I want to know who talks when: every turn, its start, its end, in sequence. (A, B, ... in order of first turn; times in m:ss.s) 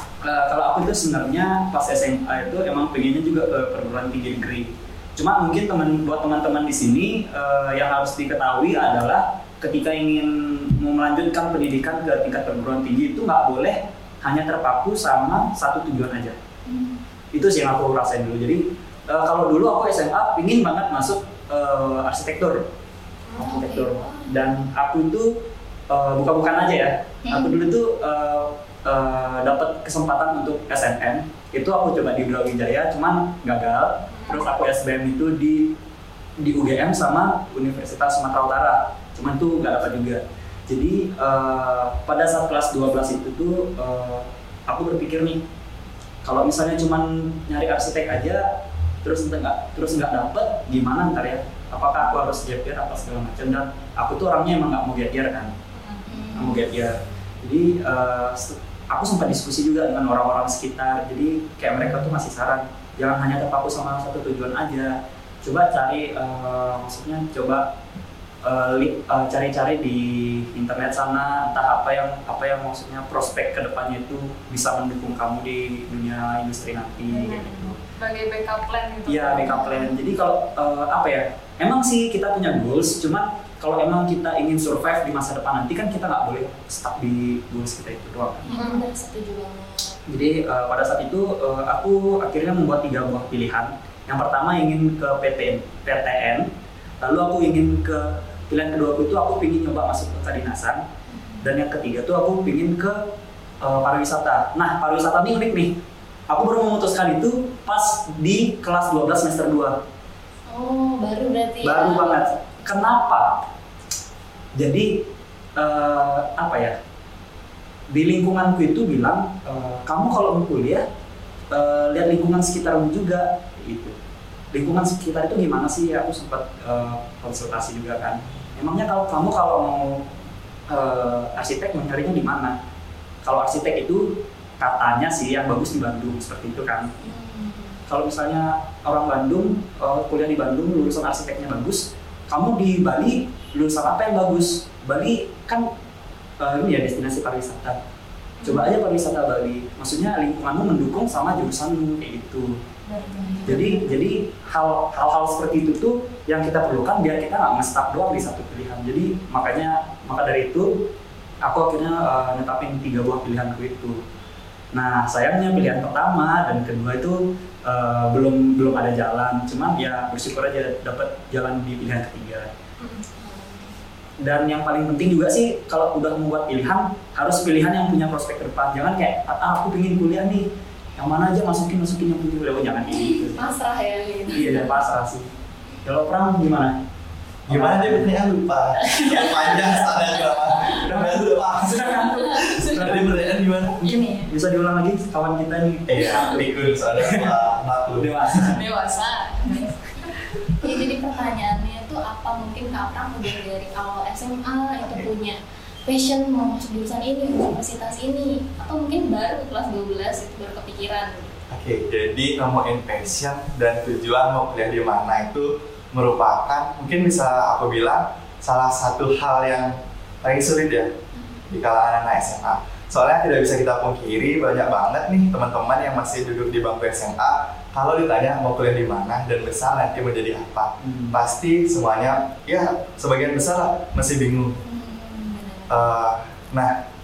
0:00.2-0:16.4 A
0:16.6-0:17.0 B
0:17.3-0:22.7 A
0:23.4-0:25.3 A
0:23.4-0:24.6 B
0:25.9-0:35.7 A
0:27.2-0:27.5 B
0:34.1-0:34.4 C
0:36.4-0:45.4 A
0:46.2-0:48.5 A
0:49.0-0:55.5 A
0:55.7-0:56.0 C
0:56.1-0:56.7 B
0:56.4-1:07.7 A
1:01.8-1:02.1 D
1:08.4-1:17.8 A
1:17.1-1:19.6 C
1:19.0-1:28.5 A
1:19.4-1:20.0 B
1:28.4-1:30.0 B
1:28.5-1:28.8 C
1:30.1-1:36.5 A
1:37.0-1:40.8 A
1:41.1-1:41.4 B
1:41.4-1:43.0 A
1:43.6-1:45.7 A
1:46.3-1:49.8 A
1:50.5-1:52.3 B
1:51.6-1:53.4 A
1:54.6-1:56.8 A
1:57.9-2:00.8 A
2:01.5-2:03.9 A
2:04.5-2:10.0 A
2:10.7-2:12.5 A
2:13.2-2:16.9 A
2:17.0-2:17.8 B
2:17.9-2:25.7 A
2:26.4-2:27.8 A
2:28.4-2:28.8 C
2:28.4-2:32.6 A
2:32.8-2:33.8 C
2:33.2-2:33.7 B
2:33.4-2:40.9 A
2:41.4-2:44.0 A
2:44.7-2:52.5 A
2:52.8-2:53.0 C
2:53.2-2:53.8 B
2:54.2-3:03.4 A
3:02.8-3:04.7 B
3:04.3-3:05.3 A
3:05.8-3:06.8 A
3:07.5-3:08.1 A
3:07.5-3:13.8 D
3:08.8-3:10.7 B
3:10.7-3:13.2 A
3:13.8-3:14.3 C
3:14.3-3:17.3 A
3:15.9-3:18.5 D
3:18.0-3:18.6 A
3:18.5-3:20.0 C
3:19.4-3:19.7 B
3:20.6-3:31.3 B
3:24.8-3:25.1 D
3:31.5-3:40.9 D
3:41.1-3:41.4 B
3:41.5-3:54.6 D
3:50.8-3:51.2 A
3:54.6-3:55.8 B
3:55.7-3:56.8 D